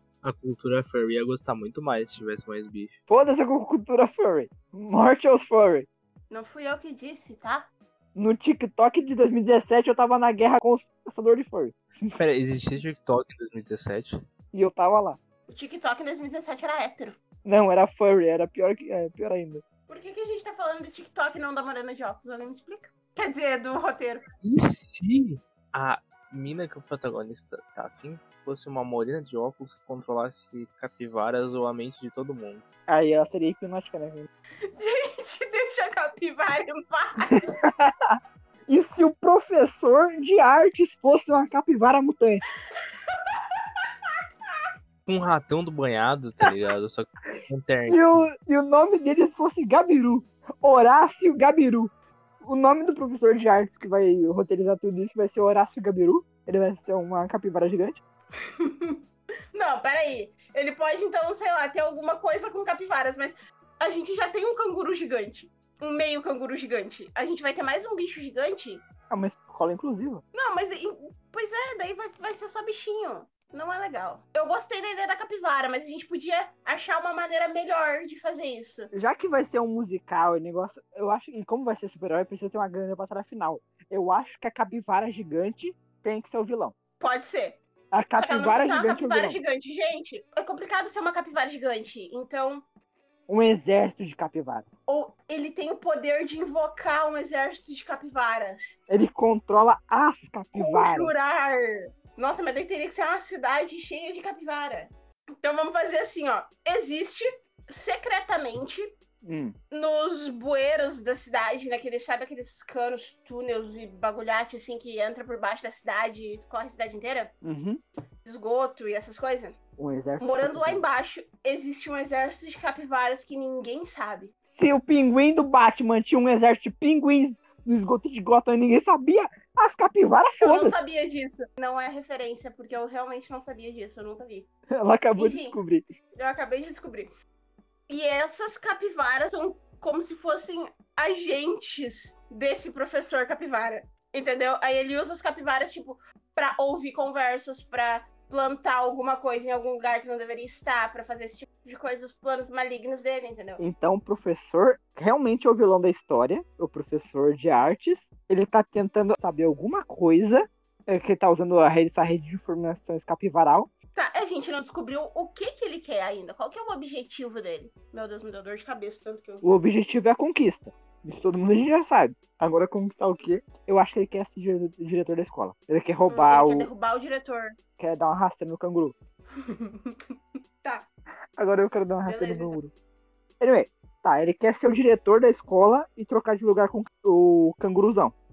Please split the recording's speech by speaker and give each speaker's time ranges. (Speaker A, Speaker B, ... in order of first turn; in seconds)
Speaker A: 0.2-3.0, 12.2-14.2, 24.4-32.6, 45.1-48.3
Speaker B: 3.1-5.9, 8.2-12.2, 14.5-15.2, 17.4-19.6, 32.9-34.3, 37.3-38.2, 38.7-42.4, 47.4-51.9, 52.4-58.0, 69.1-70.2, 78.9-86.8, 87.9-89.4, 93.3-94.7, 98.9-101.1, 109.2-109.5, 117.4-117.8, 119.8-120.8, 124.5-130.8, 134.7-135.8, 153.6-163.7, 169.4-176.7, 177.8-178.9, 181.4-182.7, 183.4-188.1
Speaker C: 6.3-7.7, 15.5-17.2, 19.9-24.2, 34.7-37.6, 43.1-44.6, 58.6-59.0, 59.5-68.8, 70.3-78.9, 87.0-87.6, 88.2-92.7, 94.9-98.8, 100.6-109.0, 109.7-117.3, 118.2-119.6, 120.2-124.3, 130.4-134.5, 135.2-135.6, 136.2-137.1, 137.9-153.6, 163.9-169.4, 176.1-177.6, 179.3-180.9, 182.1-182.6